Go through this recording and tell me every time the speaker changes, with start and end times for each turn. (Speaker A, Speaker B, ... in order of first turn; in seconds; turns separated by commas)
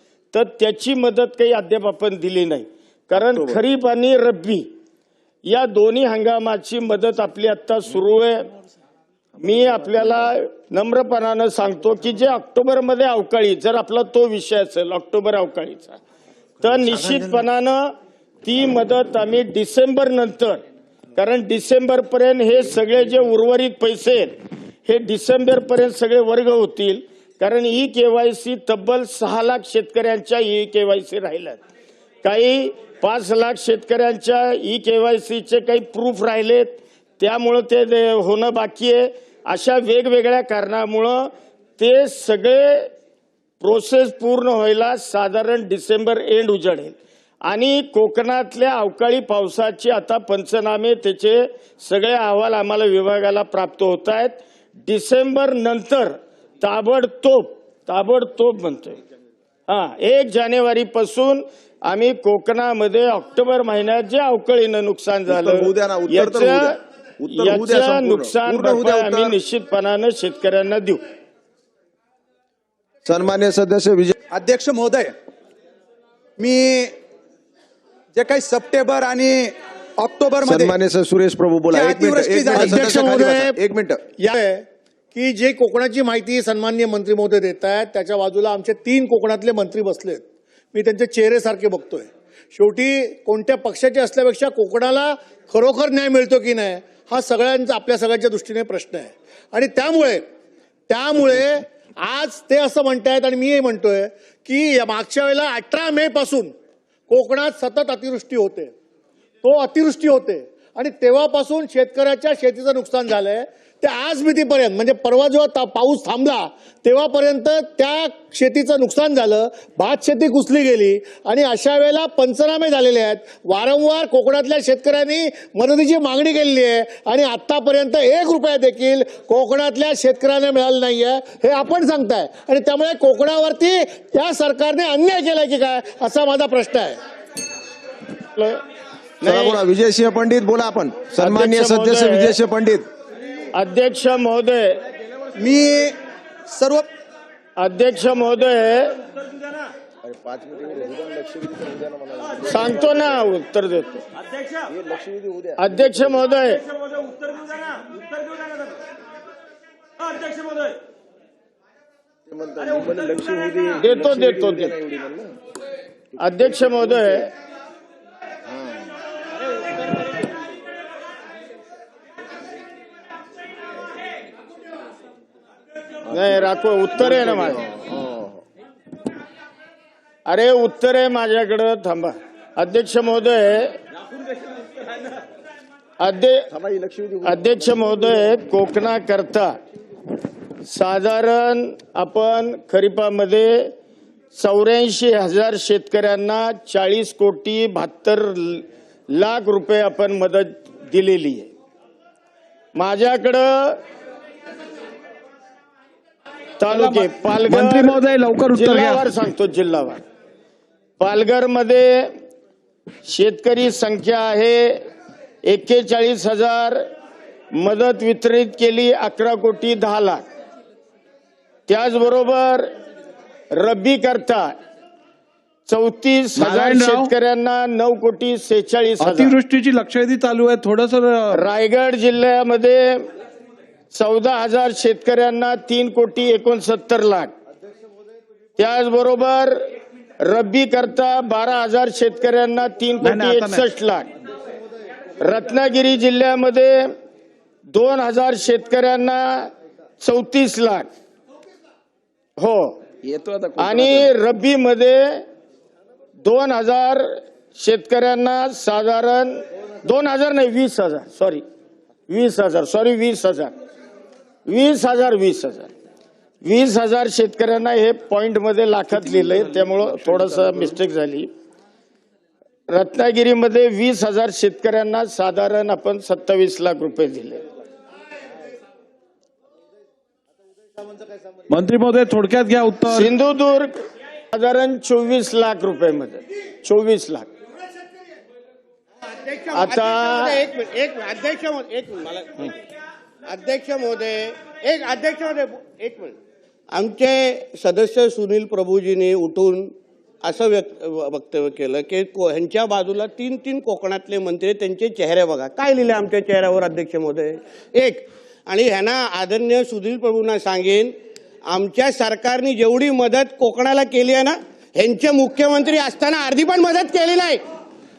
Speaker A: 0.3-4.7, Speaker B: 3.3-3.6, Speaker A: 5.4-8.5, Speaker A: 9.4-16.0, Speaker A: 16.6-20.6, Speaker B: 16.8-17.3, Speaker A: 21.1-31.6, Speaker A: 32.2-42.9, Speaker A: 43.6-59.0, Speaker A: 59.7-66.8, Speaker B: 65.3-69.4, Speaker A: 67.3-71.0, Speaker B: 73.0-74.2, Speaker C: 74.3-75.1, Speaker C: 76.4-76.9, Speaker C: 78.1-80.8, Speaker B: 80.4-84.0, Speaker C: 81.7-83.2, Speaker D: 82.5-83.6, Speaker D: 84.2-100.2, Speaker D: 100.9-106.5, Speaker D: 107.1-108.7, Speaker D: 109.4-137.0, Speaker A: 138.3-138.6, Speaker A: 139.2-139.6, Speaker B: 139.2-142.9, Speaker A: 141.2-142.4, Speaker A: 143.5-144.8, Speaker C: 145.4-146.0, Speaker C: 146.5-146.9, Speaker A: 147.6-149.0, Speaker B: 150.0-153.2, Speaker A: 152.5-154.0, Speaker B: 154.7-156.1, Speaker A: 155.6-156.6, Speaker B: 162.3-165.4, Speaker A: 163.8-164.7, Speaker A: 166.2-167.3, Speaker B: 166.3-167.2, Speaker B: 168.5-168.8, Speaker B: 176.1-178.4, Speaker A: 176.1-177.6, Speaker A: 180.3-183.8, Speaker A: 186.0-186.5, Speaker B: 186.5-188.1, Speaker A: 187.2-189.6, Speaker A: 190.6-193.7, Speaker A: 194.3-201.5, Speaker A: 202.8-203.8, Speaker A: 206.6-208.0, Speaker E: 206.7-209.0, Speaker A: 208.5-210.0, Speaker A: 211.0-212.1, Speaker A: 213.0-214.9, Speaker A: 215.4-216.9, Speaker A: 217.5-220.2, Speaker A: 221.7-222.7, Speaker A: 223.5-224.5, Speaker A: 225.7-229.4, Speaker E: 226.4-227.1, Speaker E: 229.0-231.4, Speaker A: 231.3-233.1, Speaker A: 233.9-237.3, Speaker A: 238.6-239.7, Speaker A: 240.2-244.1, Speaker E: 243.0-243.6, Speaker A: 245.2-246.9, Speaker A: 247.7-250.9, Speaker A: 252.4-252.8, Speaker B: 253.0-254.1, Speaker A: 253.6-255.2, Speaker A: 256.2-261.4, Speaker A: 262.1-263.5, Speaker A: 264.5-265.7, Speaker A: 266.4-271.3, Speaker A: 272.7-277.4, Speaker E: 281.5-283.1, Speaker A: 282.9-283.8, Speaker A: 284.3-287.3, Speaker F: 289.2-292.6, Speaker A: 289.5-290.5, Speaker F: 293.2-296.2, Speaker F: 296.7-317.4